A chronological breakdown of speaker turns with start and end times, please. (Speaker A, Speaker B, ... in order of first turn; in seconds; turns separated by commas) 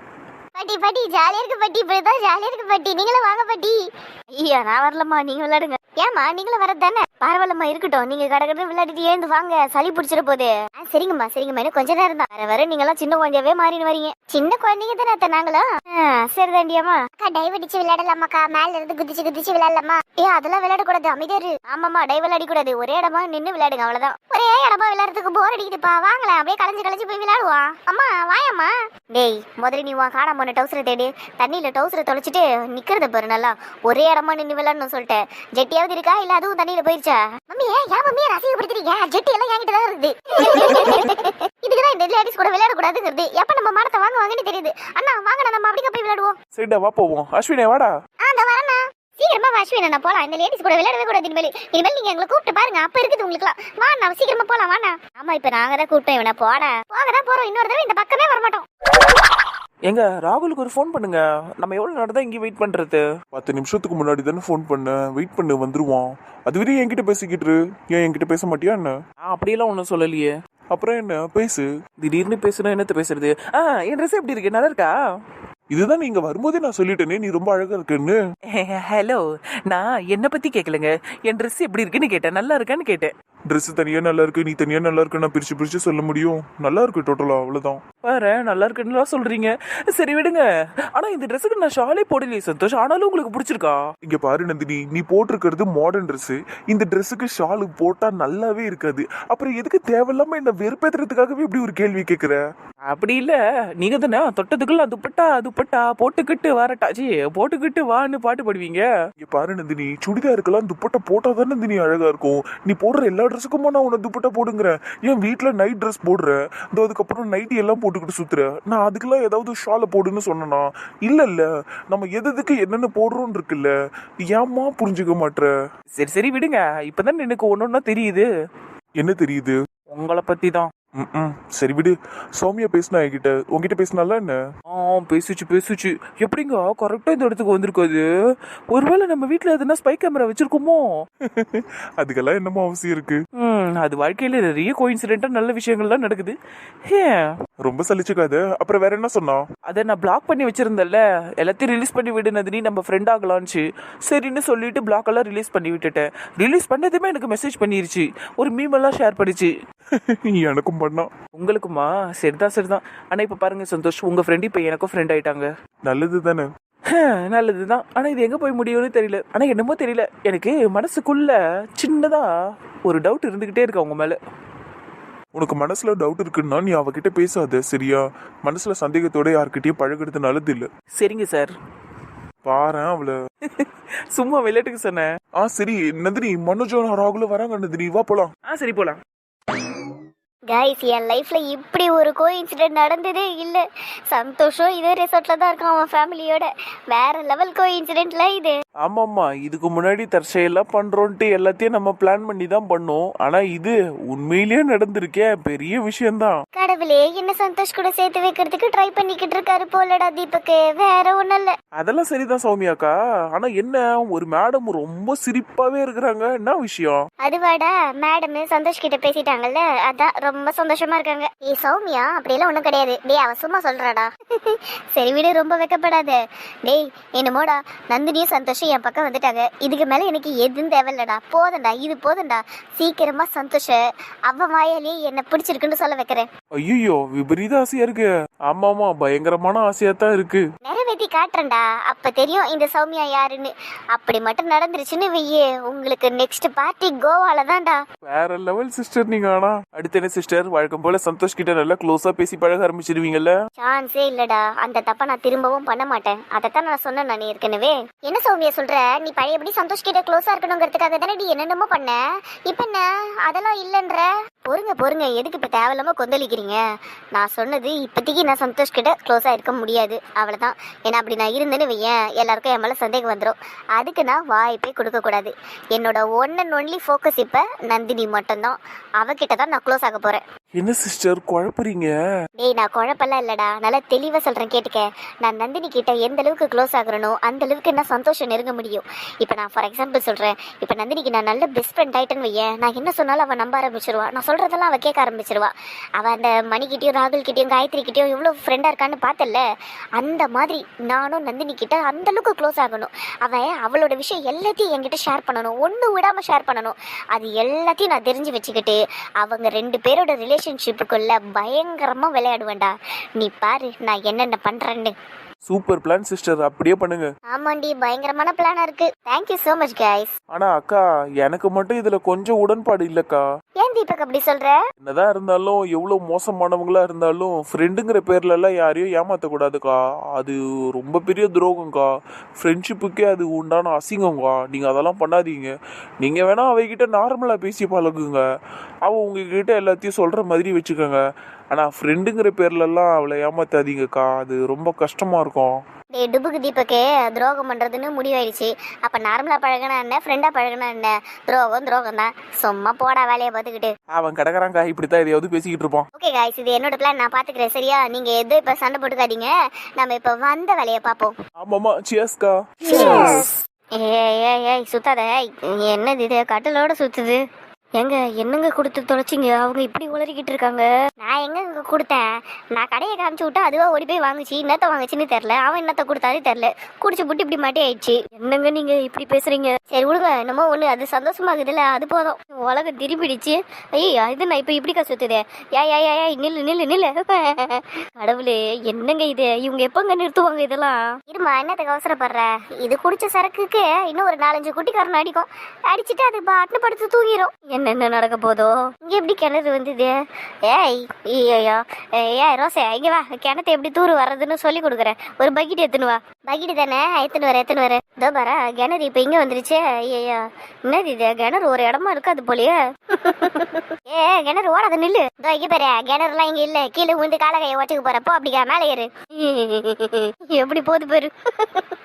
Speaker A: 0.6-3.8, Speaker A: 4.3-46.4, Speaker B: 46.5-47.9, Speaker A: 48.2-58.7, Speaker B: 59.9-63.0, Speaker C: 63.3-69.0, Speaker B: 69.2-70.3, Speaker C: 70.7-71.7, Speaker B: 72.0-74.9, Speaker C: 75.7-78.2, Speaker B: 78.5-83.1, Speaker C: 83.5-87.8, Speaker B: 88.0-90.4, Speaker B: 91.0-93.8, Speaker C: 94.0-102.4, Speaker B: 102.9-108.8, Speaker C: 109.2-125.5, Speaker B: 126.0-128.3, Speaker C: 129.0-129.6, Speaker B: 129.9-130.7, Speaker C: 131.0-134.4, Speaker B: 134.7-138.1, Speaker B: 138.7-140.9, Speaker C: 141.2-143.2, Speaker B: 143.4-146.4, Speaker B: 146.9-147.3, Speaker C: 147.6-149.5, Speaker B: 149.7-159.5, Speaker C: 159.9-161.1, Speaker B: 161.3-165.5, Speaker C: 165.9-166.5, Speaker B: 166.9-172.3, Speaker B: 172.8-174.2, Speaker C: 175.3-180.7, Speaker B: 180.9-181.5, Speaker C: 182.4-183.2, Speaker B: 183.5-185.1, Speaker C: 185.4-188.3, Speaker B: 188.4-189.0, Speaker A: 190.5-198.6, Speaker B: 198.8-206.3, Speaker A: 206.6-211.6, Speaker B: 211.8-217.0, Speaker A: 217.2-236.3, Speaker B: 236.7-240.4, Speaker A: 240.6-247.8, Speaker C: 248.1-249.7, Speaker B: 249.7-253.3, Speaker A: 253.6-266.6, Speaker A: 267.1-280.2, Speaker B: 280.6-281.9, Speaker C: 281.3-281.5, Speaker A: 282.4-299.4, Speaker A: 300.0-314.9, Speaker B: 315.5-317.1, Speaker A: 317.3-320.1, Speaker B: 320.3-323.2, Speaker A: 323.6-324.6, Speaker C: 324.9-329.8, Speaker B: 328.1-328.8, Speaker B: 330.2-331.7, Speaker C: 332.5-335.5, Speaker B: 332.6-333.1, Speaker B: 336.0-338.2, Speaker B: 338.9-341.0, Speaker B: 341.5-344.7, Speaker C: 342.2-342.8, Speaker C: 344.5-345.4, Speaker A: 346.0-353.7, Speaker B: 353.9-355.9, Speaker A: 356.0-361.1, Speaker B: 361.4-363.3, Speaker A: 362.6-367.2, Speaker A: 367.8-372.0, Speaker A: 372.6-390.3, Speaker A: 391.1-421.7